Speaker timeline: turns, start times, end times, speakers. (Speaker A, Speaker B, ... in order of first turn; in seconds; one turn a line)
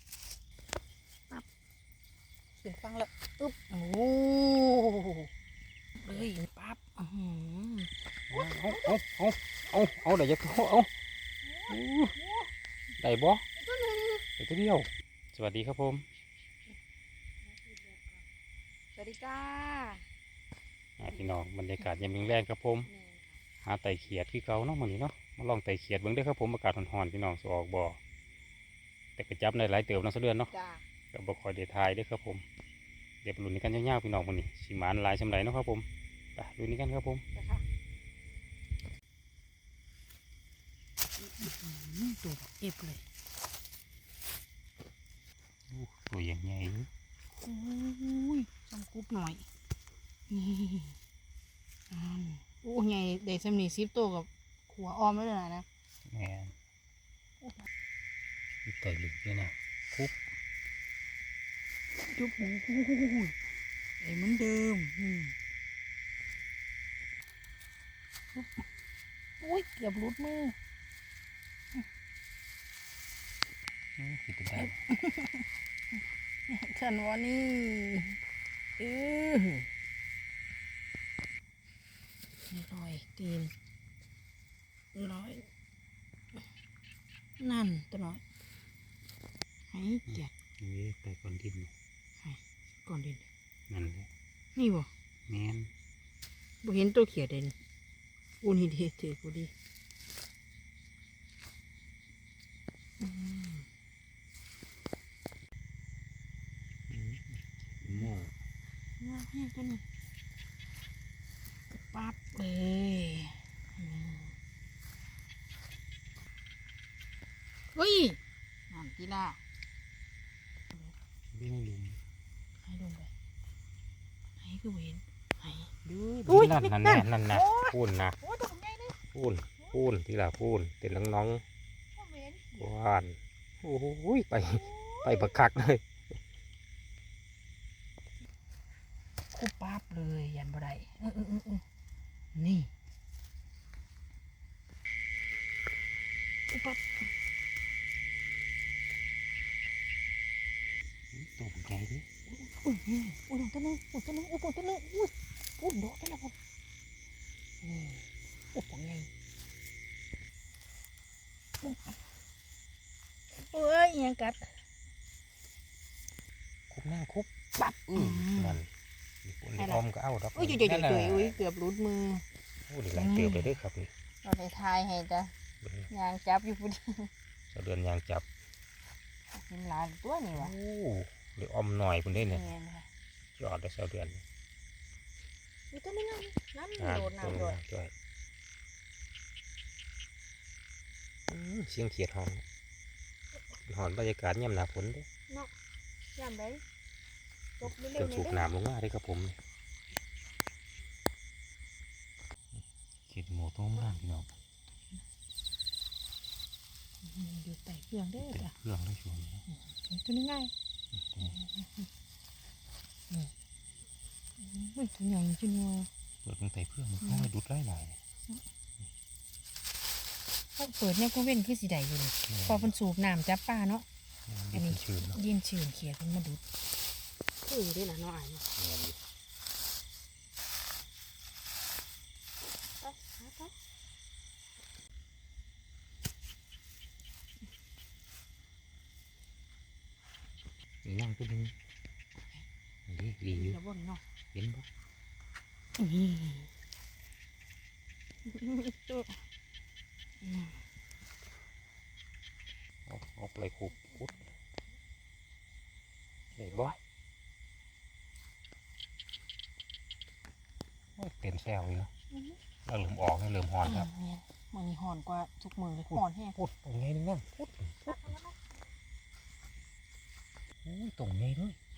Speaker A: 2.6-5.3
Speaker A: 6.0-9.0
Speaker B: 6.1-6.4
Speaker B: 8.3-10.9
Speaker A: 11.4-12.5
Speaker B: 11.7-12.1
Speaker B: 13.0-13.4
Speaker A: 13.6-14.2
Speaker B: 14.4-16.0
Speaker A: 17.4-18.2
Speaker A: 18.9-20.0
Speaker B: 21.0-22.9
Speaker A: 22.8-23.4
Speaker B: 23.6-28.0
Speaker B: 29.2-30.5
Speaker A: 30.5-30.8
Speaker B: 31.1-32.4
Speaker B: 33.2-37.2
Speaker A: 37.3-37.6
Speaker A: 41.2-43.0
Speaker B: 45.7-46.9
Speaker A: 47.4-49.4
Speaker A: 50.3-51.0
Speaker A: 51.9-55.6
Speaker B: 56.1-56.5
Speaker B: 58.6-60.1
Speaker A: 62.1-63.3
Speaker A: 64.0-65.3
Speaker A: 69.4-70.5
Speaker B: 74.0-74.8
Speaker A: 74.5-75.4
Speaker A: 76.5-78.2
Speaker A: 78.8-79.7
Speaker A: 82.5-83.5
Speaker A: 84.9-85.4
Speaker A: 87.4-88.2
Speaker A: 89.7-90.3
Speaker B: 90.1-91.7
Speaker A: 92.2-93.2
Speaker B: 93.7-94.1
Speaker A: 94.5-94.9
Speaker B: 95.3-95.7
Speaker A: 96.6-97.5
Speaker A: 98.4-99.5
Speaker A: 103.0-103.7
Speaker B: 106.9-108.3
Speaker A: 109.0-109.8
Speaker A: 111.7-114.3
Speaker A: 117.7-118.2
Speaker A: 118.7-119.4
Speaker B: 121.3-122.0
Speaker A: 122.6-123.1
Speaker A: 124.4-128.9
Speaker B: 125.8-128.2
Speaker B: 129.1-131.4
Speaker A: 131.9-132.7
Speaker B: 132.5-135.8
Speaker A: 134.4-135.3
Speaker A: 139.3-141.6
Speaker A: 142.3-142.7
Speaker A: 146.5-147.0
Speaker B: 151.1-152.1
Speaker A: 152.3-156.3
Speaker A: 157.6-158.0
Speaker A: 158.5-159.1
Speaker A: 161.6-161.9
Speaker A: 163.3-164.5
Speaker B: 166.7-167.3
Speaker A: 167.6-168.6
Speaker B: 167.9-168.7
Speaker B: 169.2-171.3
Speaker A: 169.6-169.8
Speaker A: 170.3-172.2
Speaker B: 172.7-173.9
Speaker A: 172.9-173.6
Speaker A: 174.2-175.3
Speaker B: 175.6-175.9
Speaker A: 175.9-177.1
Speaker B: 177.5-178.2
Speaker A: 179.3-180.5
Speaker B: 180.3-182.5
Speaker A: 182.1-182.9
Speaker B: 183.4-184.2
Speaker A: 185.7-187.6
Speaker B: 186.8-187.9
Speaker B: 191.3-192.4
Speaker B: 193.7-195.1
Speaker A: 196.2-196.6
Speaker A: 197.6-198.5
Speaker B: 197.6-199.4
Speaker B: 203.1-204.3
Speaker A: 207.0-208.5
Speaker B: 208.2-209.4
Speaker A: 209.5-210.5
Speaker B: 210.9-211.3
Speaker A: 211.2-211.9
Speaker A: 214.4-215.9
Speaker B: 216.2-218.0
Speaker A: 217.0-217.3
Speaker A: 220.6-223.8
Speaker B: 222.3-222.7
Speaker B: 224.3-225.2
Speaker A: 224.5-226.4
Speaker A: 227.4-228.4
Speaker B: 228.5-229.0
Speaker A: 232.8-233.5
Speaker B: 240.8-241.5
Speaker B: 242.9-243.6
Speaker A: 243.3-244.0
Speaker B: 244.3-244.7
Speaker A: 245.8-246.5
Speaker A: 248.3-249.1
Speaker A: 250.2-250.6
Speaker B: 252.9-254.2
Speaker B: 256.4-256.8
Speaker B: 261.0-261.9
Speaker A: 262.1-262.4
Speaker B: 262.6-263.9
Speaker A: 263.6-266.4
Speaker B: 265.9-268.1
Speaker A: 267.9-268.4
Speaker B: 270.6-271.6